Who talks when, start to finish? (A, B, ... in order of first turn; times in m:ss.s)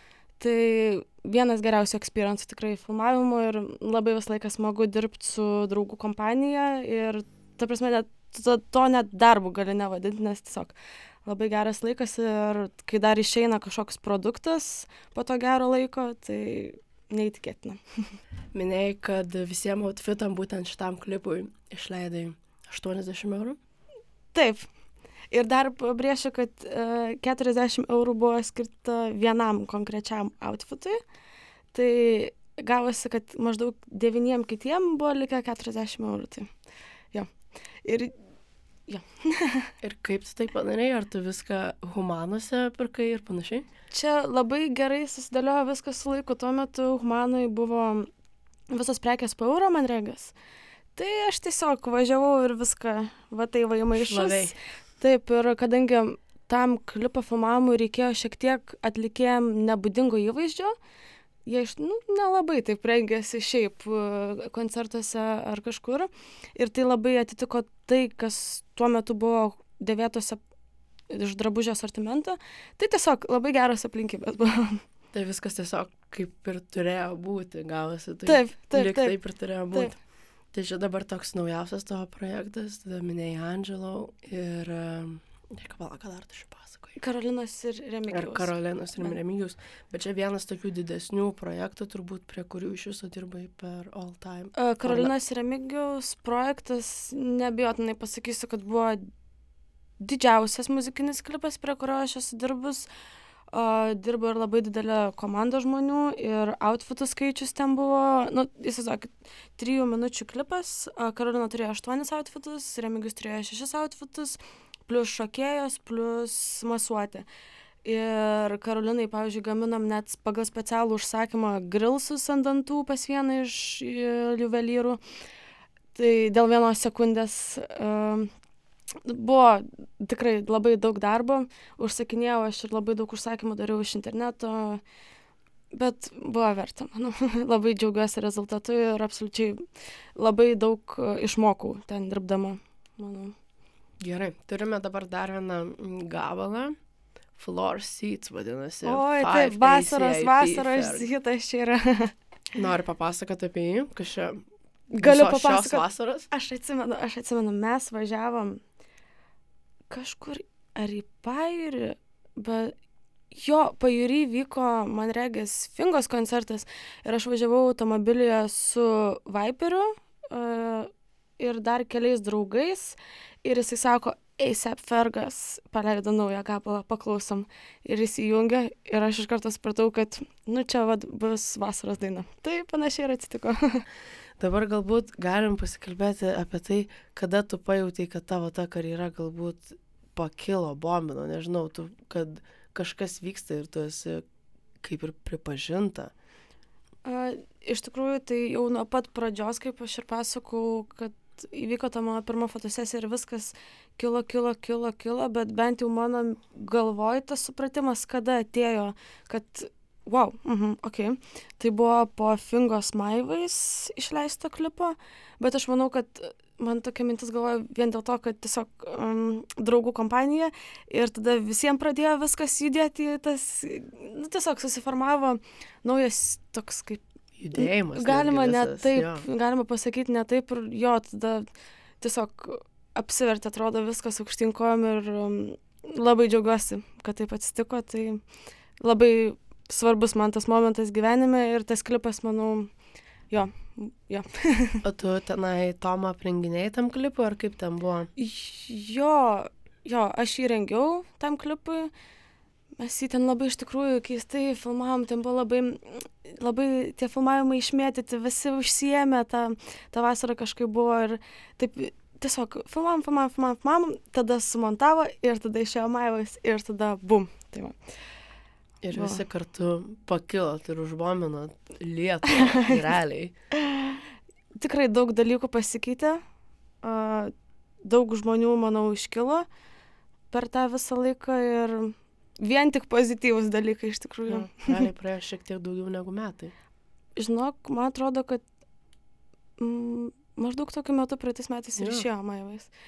0:00.4-0:17.8 A
0:18.5-0:23.6 B
0:24.3-0:24.7 A
0:25.3-0:31.0 A
0:31.7-0:36.5 A
0:37.8-0:38.1 A
0:38.9-0:39.7 A
0:39.8-0:43.7 B
0:43.9-0:48.1 A
0:48.7-0:50.3 A
0:51.0-1:00.8 A
0:54.0-0:54.6 B
1:01.5-1:10.4 A
1:11.1-1:14.8 A
1:15.1-1:19.9 B
1:18.3-1:19.2 A
1:20.5-1:27.0 B
1:27.0-1:28.5 A
1:28.1-1:35.1 B
1:34.6-1:39.1 A
1:40.0-1:42.9 A
1:43.5-1:57.3 A
1:57.8-2:05.0 A
2:06.0-2:08.3 A
2:09.0-2:14.8 A
2:15.7-2:19.6 A
2:20.2-2:23.4 A
2:24.0-2:26.8 B
2:27.4-2:31.1 B
2:28.8-2:32.1 A
2:32.6-2:36.3 B
2:34.9-2:38.6 A
2:39.9-2:42.8 A
2:43.3-3:03.8 A
3:04.4-3:14.2 B
3:14.8-3:16.1 B
3:17.0-3:47.0 A
3:47.4-3:49.2 B
3:47.6-3:51.5 A
3:52.0-3:58.2 A
3:58.8-4:02.7 A
4:03.3-4:04.8 A
4:04.8-4:08.1 B
4:08.2-4:11.9 A
4:12.8-4:27.8 A
4:28.8-4:33.3 B
4:28.9-4:29.2 A
4:32.3-4:32.7 A
4:33.6-4:34.0 A
4:34.6-4:36.2 A
4:36.8-4:37.3 A
4:37.8-4:39.5 A
4:40.3-4:44.8 A
4:44.3-4:46.5 B
4:47.2-4:48.4 A
4:49.6-4:52.7 A
4:51.8-4:52.1 B